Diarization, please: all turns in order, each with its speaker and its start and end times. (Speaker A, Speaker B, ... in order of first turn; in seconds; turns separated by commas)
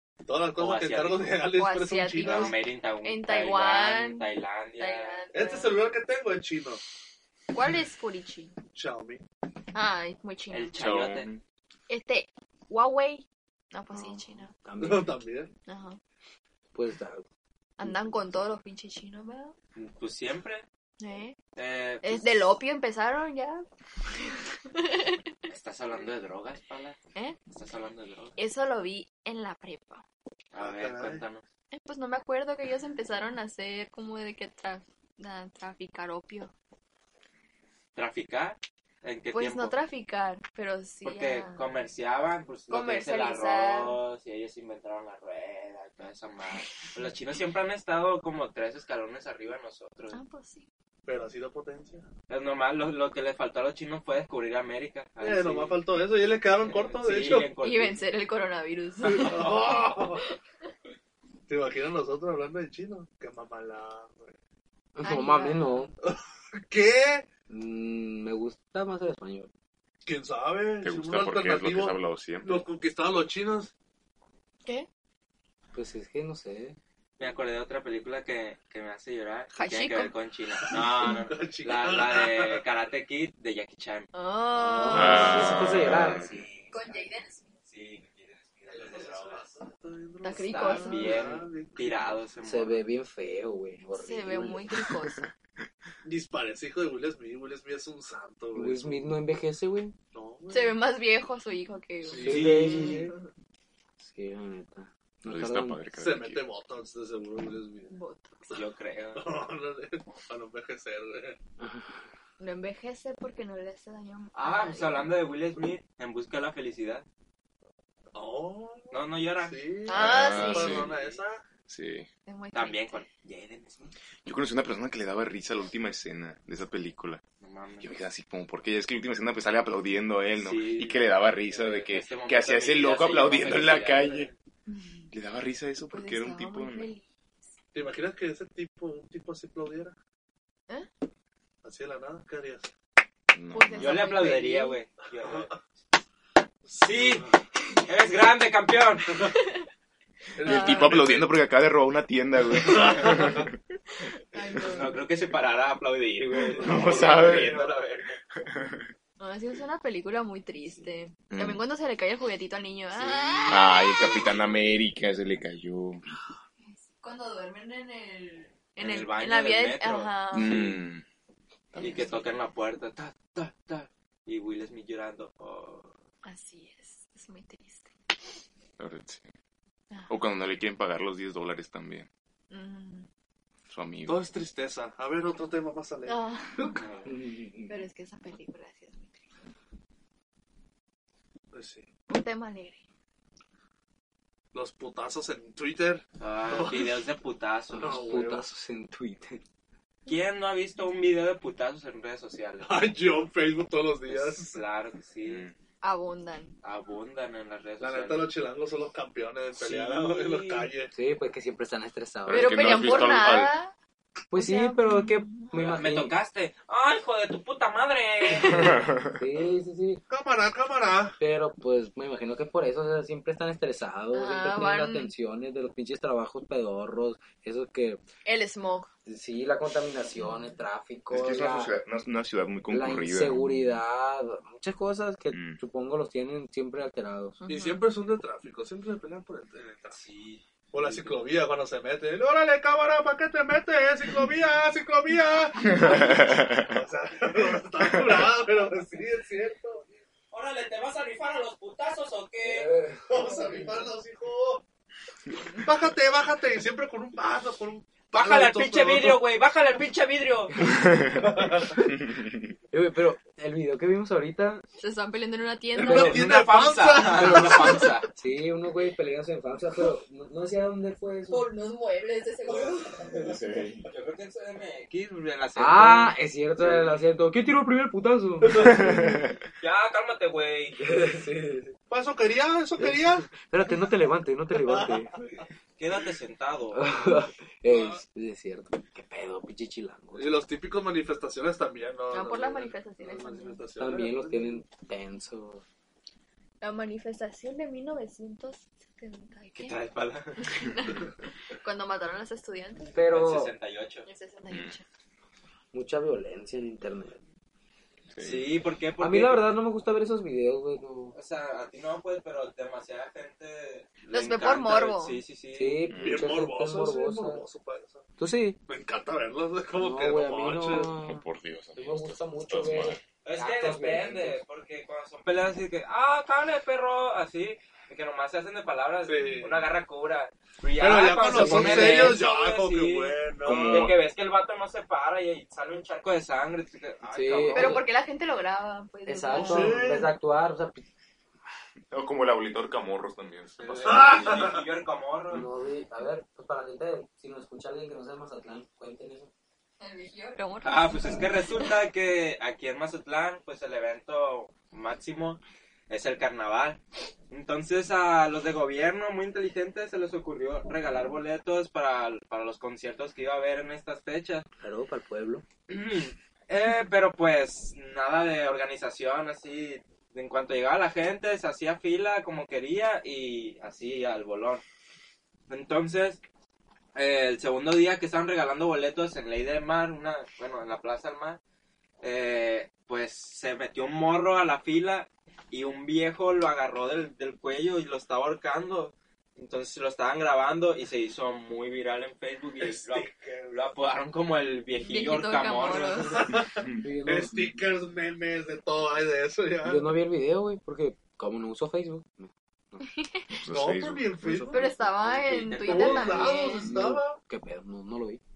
Speaker A: 0.2-2.5, Speaker B: 0.6-1.4, Speaker C: 1.5-4.3, Speaker B: 2.2-5.2, Speaker C: 4.8-5.8, Speaker A: 5.3-6.8, Speaker C: 7.5-8.5, Speaker A: 8.7-9.2, Speaker C: 9.7-10.8, Speaker B: 10.5-11.3, Speaker D: 10.8-11.4, Speaker C: 11.9-14.5, Speaker E: 13.9-15.2, Speaker A: 14.8-15.5, Speaker C: 15.7-16.0, Speaker E: 16.7-17.2, Speaker C: 17.8-19.5, Speaker B: 19.8-20.6, Speaker C: 21.0-21.4, Speaker B: 21.5-22.5, Speaker C: 22.0-25.3, Speaker B: 25.5-28.4, Speaker C: 28.4-30.0, Speaker B: 30.5-31.4, Speaker A: 30.6-31.2, Speaker C: 31.7-36.5, Speaker B: 37.9-39.8, Speaker C: 39.3-41.7, Speaker B: 41.0-50.2, Speaker C: 42.7-44.0, Speaker C: 50.1-50.6, Speaker A: 51.0-52.1, Speaker B: 52.3-55.9, Speaker A: 55.2-57.5, Speaker B: 56.5-58.0, Speaker C: 57.6-60.3, Speaker A: 59.0-60.2, Speaker A: 61.5-64.3, Speaker E: 65.0-65.9, Speaker C: 65.0-65.9, Speaker A: 66.0-67.3, Speaker E: 67.5-69.5, Speaker A: 70.0-73.7, Speaker D: 70.8-72.7, Speaker E: 75.7-76.8, Speaker B: 77.2-84.1, Speaker C: 79.5-80.1, Speaker A: 80.7-82.6, Speaker C: 84.1-85.6, Speaker B: 84.8-87.1, Speaker E: 84.8-86.3, Speaker D: 84.9-86.5, Speaker C: 86.7-87.5, Speaker B: 87.6-89.5, Speaker A: 88.7-92.1, Speaker C: 90.2-91.3, Speaker B: 90.4-92.8, Speaker E: 92.4-94.8, Speaker C: 93.9-95.2, Speaker D: 95.0-95.3, Speaker A: 96.0-99.1, Speaker E: 98.5-99.9, Speaker A: 100.1-100.8, Speaker C: 100.5-103.3, Speaker A: 102.0-103.1, Speaker E: 102.2-103.1, Speaker B: 102.2-103.0, Speaker E: 104.0-105.8, Speaker D: 105.2-106.4, Speaker A: 105.9-107.9, Speaker C: 107.9-108.6, Speaker B: 108.5-109.2, Speaker A: 109.1-111.4, Speaker E: 111.6-112.0, Speaker C: 112.4-115.1, Speaker B: 114.3-117.0, Speaker A: 118.1-121.4, Speaker B: 118.9-119.6, Speaker C: 119.9-120.9, Speaker D: 119.9-120.9, Speaker B: 120.6-121.2, Speaker D: 121.7-122.1, Speaker C: 122.2-123.0, Speaker B: 122.5-123.9, Speaker D: 124.2-127.2, Speaker B: 127.4-127.9, Speaker D: 127.8-134.3, Speaker B: 130.4-134.3, Speaker C: 134.7-135.1, Speaker D: 135.1-136.9, Speaker C: 135.9-137.0, Speaker A: 137.7-139.9, Speaker A: 141.6-142.7, Speaker D: 143.3-144.2, Speaker C: 143.5-144.8, Speaker B: 143.7-145.6, Speaker A: 145.2-145.5, Speaker A: 146.7-147.3, Speaker B: 146.7-147.3, Speaker B: 147.8-149.2, Speaker C: 149.2-149.6, Speaker A: 150.3-151.3, Speaker C: 150.4-151.0, Speaker D: 150.4-153.6, Speaker A: 152.6-153.4, Speaker C: 154.3-154.9, Speaker B: 154.6-158.2, Speaker A: 156.6-157.6, Speaker D: 156.6-157.6, Speaker D: 158.4-158.9, Speaker C: 159.2-163.9, Speaker D: 161.3-161.6, Speaker B: 162.9-164.8, Speaker D: 163.5-166.0, Speaker C: 166.6-170.6, Speaker B: 168.8-170.8, Speaker D: 170.3-171.0, Speaker D: 171.8-172.2, Speaker B: 171.8-175.9, Speaker C: 176.2-177.9, Speaker D: 178.8-179.3, Speaker D: 180.1-182.1, Speaker C: 182.5-183.1, Speaker D: 183.7-184.2, Speaker A: 184.1-186.2, Speaker C: 186.1-186.8, Speaker B: 186.7-187.1, Speaker E: 187.0-187.8, Speaker C: 187.7-189.2, Speaker A: 191.5-191.9, Speaker C: 192.1-192.8, Speaker A: 194.5-197.0, Speaker B: 196.2-198.1, Speaker E: 197.8-199.4, Speaker A: 197.8-198.5, Speaker B: 200.1-202.8, Speaker A: 202.6-204.6, Speaker B: 204.1-205.5, Speaker D: 205.2-205.5, Speaker C: 205.8-206.5, Speaker B: 206.6-208.3, Speaker A: 207.8-210.9, Speaker B: 209.5-210.7, Speaker E: 210.9-212.8, Speaker D: 212.3-213.5, Speaker C: 212.3-213.7, Speaker E: 214.3-216.1, Speaker C: 214.3-215.6, Speaker B: 215.5-218.8, Speaker D: 218.5-219.1, Speaker E: 219.1-220.0, Speaker A: 220.1-221.2, Speaker E: 221.2-228.0, Speaker C: 224.1-225.1, Speaker C: 228.2-228.9, Speaker E: 229.1-231.7, Speaker D: 231.1-233.8, Speaker E: 232.7-237.4, Speaker D: 235.3-235.6, Speaker C: 237.4-237.8, Speaker A: 237.5-240.0, Speaker B: 239.9-241.1, Speaker A: 240.7-249.8, Speaker D: 245.6-246.7, Speaker B: 250.3-252.7, Speaker E: 252.4-253.7, Speaker A: 253.1-254.6, Speaker C: 255.3-255.7, Speaker A: 255.6-259.2, Speaker B: 258.1-260.6, Speaker D: 260.7-261.2, Speaker A: 261.1-261.8, Speaker D: 262.0-262.3, Speaker E: 262.7-264.6, Speaker C: 264.8-266.3, Speaker A: 265.7-267.9, Speaker E: 265.8-266.2, Speaker B: 266.0-268.1, Speaker E: 267.1-271.5, Speaker C: 271.3-273.1, Speaker B: 272.5-272.8, Speaker D: 273.0-273.9, Speaker B: 273.9-276.1, Speaker E: 275.6-279.2, Speaker D: 278.5-279.3, Speaker B: 279.6-280.8, Speaker E: 280.8-281.7, Speaker A: 281.9-283.9, Speaker E: 282.8-285.1, Speaker A: 284.5-285.4, Speaker B: 285.8-286.9, Speaker E: 286.7-290.4, Speaker A: 290.1-294.5, Speaker C: 292.1-293.6, Speaker E: 293.8-295.6, Speaker C: 296.6-299.8, Speaker B: 299.6-300.4, Speaker C: 300.4-302.9, Speaker E: 302.9-303.5, Speaker B: 303.0-304.1, Speaker C: 304.0-304.8, Speaker D: 304.5-304.8, Speaker E: 305.7-307.2, Speaker D: 308.1-308.5, Speaker B: 308.2-309.5, Speaker E: 309.0-311.1, Speaker B: 311.1-315.9, Speaker C: 314.1-315.2, Speaker E: 315.5-317.4, Speaker D: 315.9-316.3, Speaker A: 316.0-318.1, Speaker E: 318.2-318.6, Speaker A: 318.7-320.9, Speaker E: 319.8-321.2, Speaker D: 321.1-323.0, Speaker E: 321.8-324.4, Speaker B: 323.2-337.8, Speaker A: 329.0-329.7, Speaker A: 330.8-333.9, Speaker E: 331.3-332.2, Speaker D: 333.4-334.0, Speaker E: 337.1-337.8, Speaker C: 337.5-339.8, Speaker E: 339.1-340.8, Speaker A: 339.3-340.1, Speaker D: 341.9-344.3, Speaker B: 343.6-345.5, Speaker A: 343.8-344.6, Speaker E: 345.3-349.3, Speaker C: 349.8-351.7, Speaker B: 350.6-356.8, Speaker B: 357.3-364.4, Speaker E: 364.6-365.4, Speaker B: 365.7-374.6, Speaker B: 375.5-376.2, Speaker B: 376.9-381.4, Speaker B: 382.0-396.2, Speaker A: 392.6-393.7, Speaker C: 394.8-396.2, Speaker A: 396.0-399.9, Speaker D: 396.4-396.8, Speaker E: 396.8-397.6, Speaker E: 399.6-402.9, Speaker C: 402.9-403.4, Speaker D: 403.4-404.1, Speaker A: 403.5-404.7, Speaker E: 404.2-405.6, Speaker C: 404.5-406.7, Speaker B: 405.3-406.3, Speaker A: 405.5-407.2, Speaker E: 406.5-408.2